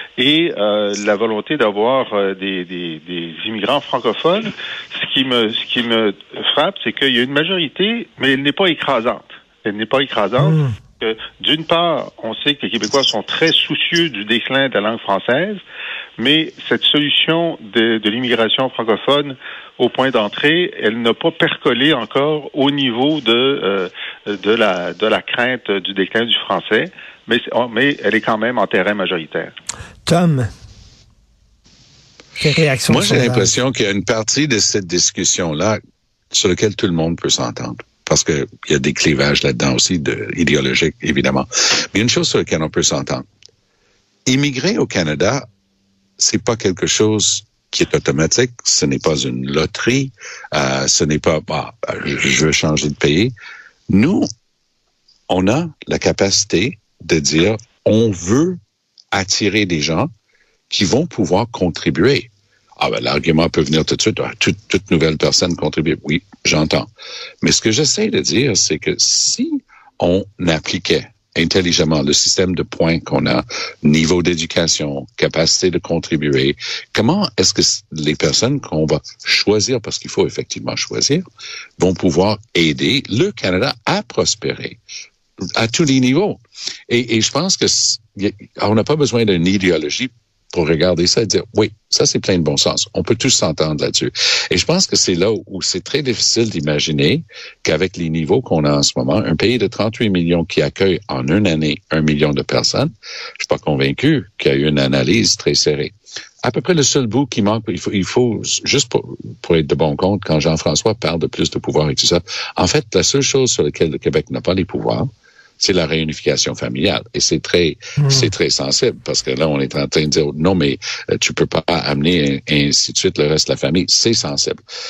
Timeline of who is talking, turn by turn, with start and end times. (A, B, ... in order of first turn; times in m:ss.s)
0:00.2-0:15.6 A
0:10.4-0:10.7 B
0:16.2-0:29.5 A
0:30.1-0:30.5 B
0:32.4-0:33.5 B
0:32.9-0:35.8 C
0:36.3-0:43.3 C
0:44.3-0:45.5 C
0:46.2-0:53.3 C
0:53.9-0:54.3 C
0:55.3-0:58.6 C
0:59.1-1:00.1 C
1:00.7-1:06.9 C
1:07.4-1:21.2 C
1:21.8-1:24.8 C
1:25.6-1:55.1 C
1:55.6-2:04.6 C
1:58.0-1:58.3 B